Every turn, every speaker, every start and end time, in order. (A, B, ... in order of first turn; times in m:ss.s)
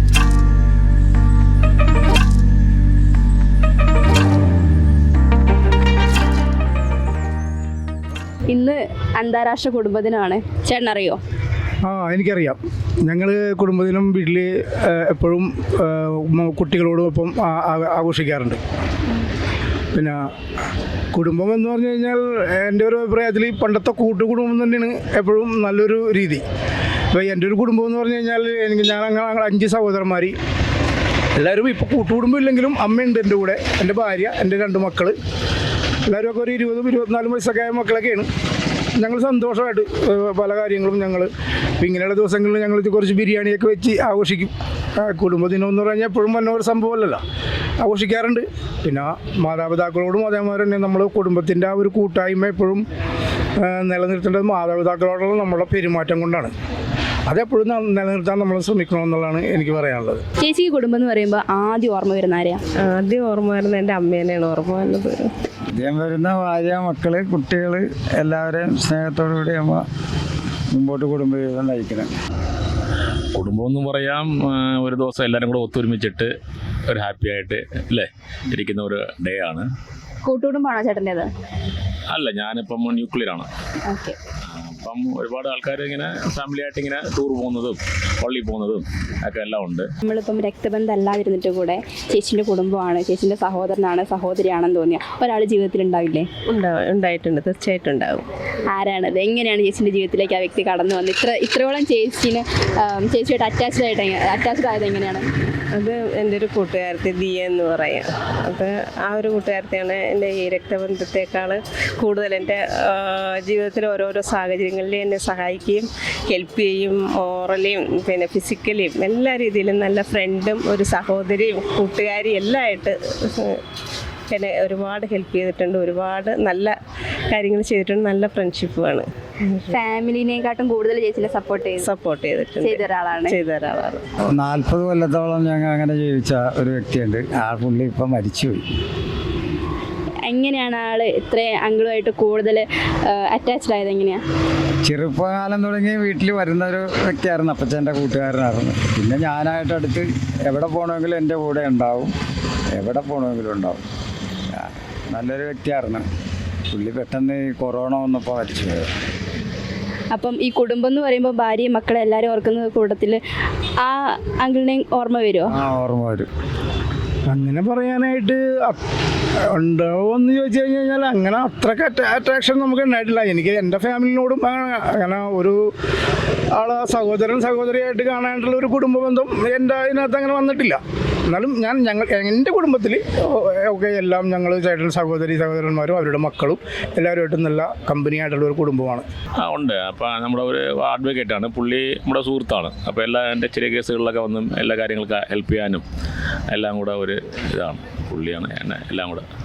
0:08.5-0:11.2 A
0:11.8-0:18.6 B
0:19.9-0:20.2 B
0:21.1-0:26.4 B
0:27.1-0:30.3 B
0:31.4-0:35.1 B
0:36.0-0:38.3 B
0:39.0-0:47.2 B
0:47.8-0:52.8 B
0:53.6-0:56.5 B
0:57.3-1:00.2 B
1:00.4-1:02.6 A
1:02.8-1:05.3 C
1:05.7-1:09.8 D
1:10.7-1:12.1 D
1:13.3-1:16.3 E
1:16.9-1:19.7 E
1:20.2-1:21.3 A
1:22.1-1:23.5 E
1:23.8-1:24.2 A
1:24.4-1:29.9 E
1:30.0-1:36.3 A
1:36.5-1:38.3 C
1:38.7-1:45.2 A
1:45.7-2:03.6 C
2:04.3-2:06.7 C
2:07.3-2:09.7 C
2:09.7-2:11.9 A
2:11.8-2:14.0 C
2:12.6-2:13.4 A
2:14.3-2:18.6 D
2:20.2-2:24.2 A
2:24.8-2:32.1 D
2:32.7-2:33.8 D
2:34.5-2:36.1 D
2:36.7-2:38.9 D
2:40.1-2:43.2 A
2:43.8-2:45.6 A
2:45.5-2:46.3 D
2:47.3-2:48.8 B
2:49.5-2:55.7 B
2:56.5-3:09.0 B
3:09.4-3:15.8 E
3:16.5-3:19.2 E